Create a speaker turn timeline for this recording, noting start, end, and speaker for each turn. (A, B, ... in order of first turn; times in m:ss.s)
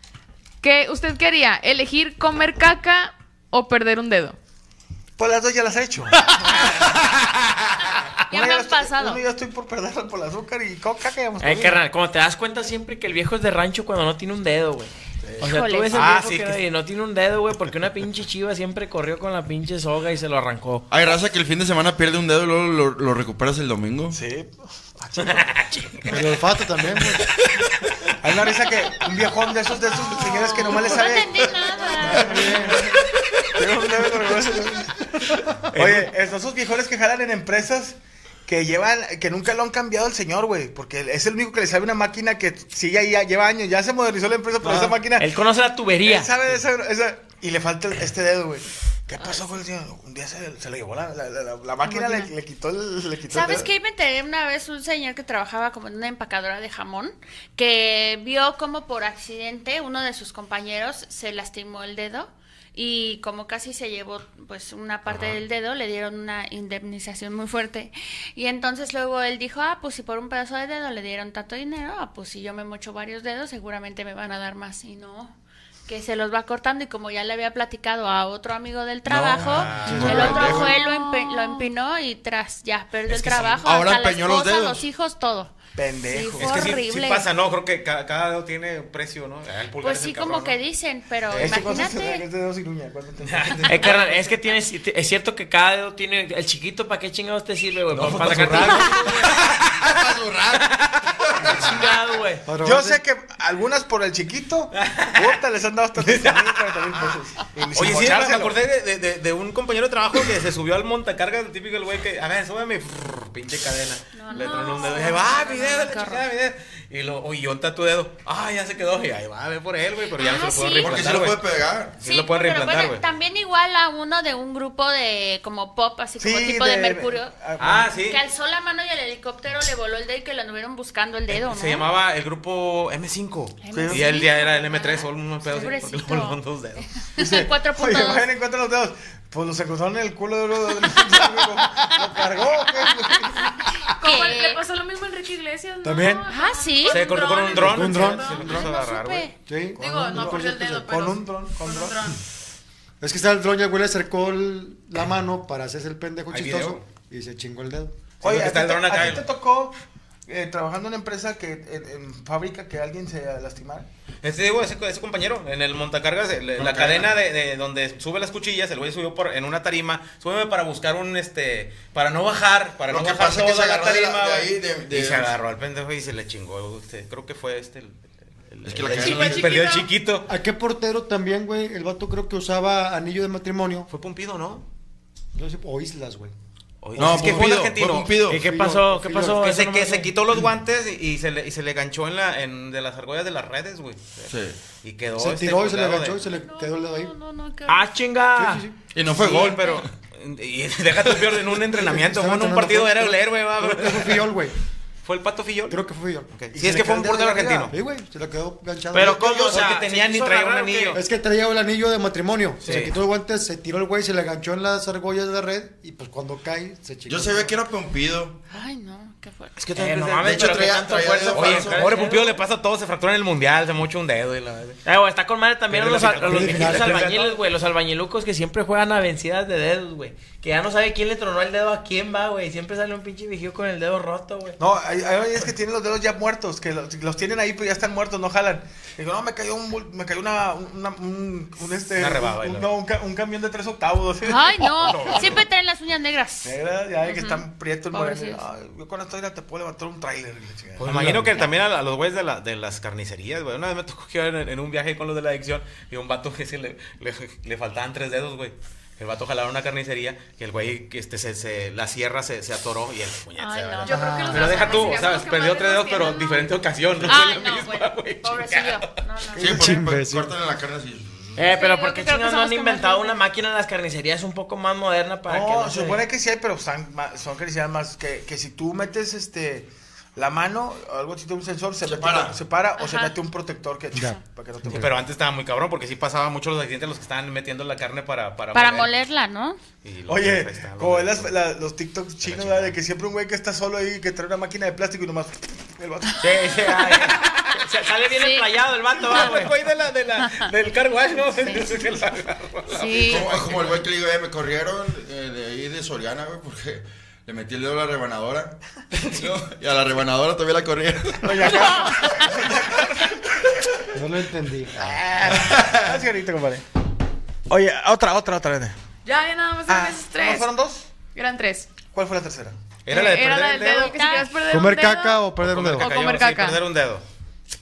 0:00.6-0:04.4 A
0:05.2-0:07.2 B
0:08.1-0:11.8 B
0:08.3-0:09.2 C
0:11.4-0:20.9 D
0:15.2-0:15.6 B
0:15.4-0:15.9 C
0:15.9-0:16.6 E
0:20.9-0:24.2 F
0:24.1-0:25.6 B
0:25.2-0:26.2 E
0:26.0-0:27.3 G
0:28.2-0:45.3 B
0:29.9-0:32.8 C
0:32.0-0:32.9 G
0:35.7-0:36.1 E
0:44.6-0:44.9 G
0:45.1-0:46.3 D
0:46.0-0:53.7 B
0:49.2-0:49.5 C
0:51.8-0:52.3 A
0:53.3-1:15.4 C
1:05.1-1:05.4 E
1:15.9-1:27.3 C
1:19.1-1:20.7 F
1:19.4-1:20.6 E
1:19.8-1:20.7 G
1:20.6-1:21.7 A
1:23.1-1:23.6 E
1:23.6-1:24.8 F
1:25.7-1:26.8 B
1:26.4-1:30.6 E
1:29.8-1:32.2 C
1:31.3-1:34.3 B
1:33.2-1:34.0 E
1:33.6-1:39.1 D
1:37.9-1:39.7 E
1:39.1-1:41.9 F
1:40.5-1:41.2 E
1:41.5-1:42.5 D
1:42.4-1:43.0 G
1:42.6-1:48.6 B
1:44.7-1:45.4 E
1:46.0-1:47.1 E
1:47.7-2:03.0 E
1:54.1-1:56.2 C
1:54.3-1:55.2 A
2:00.2-2:01.0 C
2:00.8-2:01.9 F
2:02.0-2:07.4 C
2:06.2-2:07.9 B
2:07.6-2:08.2 E
2:07.9-2:11.9 C
2:11.3-2:16.9 E
2:13.6-2:18.3 C
2:13.7-2:14.2 B
2:17.2-2:23.5 B
2:22.9-2:24.6 C
2:24.0-2:28.6 A
2:25.8-2:26.2 G
2:26.3-2:27.5 C
2:26.8-2:29.3 E
2:27.5-2:28.7 G
2:28.3-2:29.4 C
2:29.4-2:30.9 G
2:29.8-2:32.2 A
2:29.8-2:32.1 B
2:33.0-2:38.0 G
2:36.3-2:36.8 E
2:38.2-2:39.3 E
2:38.2-2:39.8 B
2:40.3-2:43.9 B
2:44.2-3:00.3 E
2:46.6-2:47.1 F
2:52.9-2:55.3 F
2:58.6-2:59.6 F
2:58.9-2:59.9 A
3:00.3-3:03.9 G
3:03.9-3:04.6 E
3:05.3-3:06.3 G
3:06.8-3:08.2 E
3:07.0-3:07.6 G
3:07.0-3:08.4 F
3:08.3-3:10.1 D
3:08.3-3:09.4 G
3:09.1-3:16.2 E
3:14.3-3:14.6 F
3:15.2-3:17.1 G
3:16.2-3:17.9 C
3:17.6-3:18.7 D
3:18.3-3:18.8 G
3:18.9-3:19.8 F
3:19.1-3:24.3 E
3:19.4-3:19.8 C
3:21.7-3:24.5 G
3:25.0-3:25.8 E
3:25.7-3:26.3 G
3:26.3-3:27.7 E
3:26.5-3:27.7 B
3:27.7-3:29.5 G
3:28.9-3:31.0 D
3:29.1-3:29.7 F
3:29.5-3:31.0 E
3:30.9-3:37.5 G
3:32.6-3:33.0 E
3:37.1-3:38.4 F
3:38.5-3:39.6 C
3:39.6-3:40.5 E
3:39.7-3:42.4 D
3:40.2-3:41.9 F
3:41.3-3:44.8 E
3:44.8-3:54.6 D
3:45.7-3:47.3 E
3:46.3-3:47.0 G
3:46.6-3:47.2 B
3:54.6-4:05.4 B
4:02.0-4:02.7 E
4:04.2-4:08.4 C
4:04.8-4:05.4 E
4:06.4-4:11.4 B
4:10.8-4:28.9 E
4:10.9-4:11.3 G
4:23.4-4:25.0 C
4:23.8-4:26.5 A
4:23.9-4:24.3 B
4:27.0-4:29.8 C
4:29.4-4:31.5 F
4:29.4-4:30.3 G
4:31.4-4:36.0 D
4:31.4-4:33.1 C
4:31.6-4:33.2 A
4:35.3-4:44.9 B
4:41.8-4:42.4 F
4:42.8-4:43.2 C
4:43.9-4:44.8 G
4:44.7-4:48.9 E
4:48.5-4:49.6 C
4:49.8-4:51.3 E
4:50.1-4:56.5 B
4:52.2-4:52.8 E
4:56.2-4:57.5 E
4:56.2-4:59.6 D
4:58.1-4:58.5 C
4:58.9-5:03.8 E
4:59.1-4:59.4 C
5:00.2-5:00.5 C
5:02.7-5:03.3 C
5:03.0-5:08.6 F
5:09.1-5:11.5 F
5:11.2-5:13.9 B
5:13.9-5:14.8 G
5:14.8-5:16.6 B
5:15.3-5:15.9 F
5:17.5-5:18.8 B
5:19.0-5:20.5 A
5:19.7-5:20.9 B
5:21.0-5:21.8 A
5:21.8-5:22.6 B
5:22.8-5:23.9 E
5:22.9-5:26.6 A
5:23.7-5:24.3 C
5:24.5-5:25.9 G
5:25.4-5:27.0 E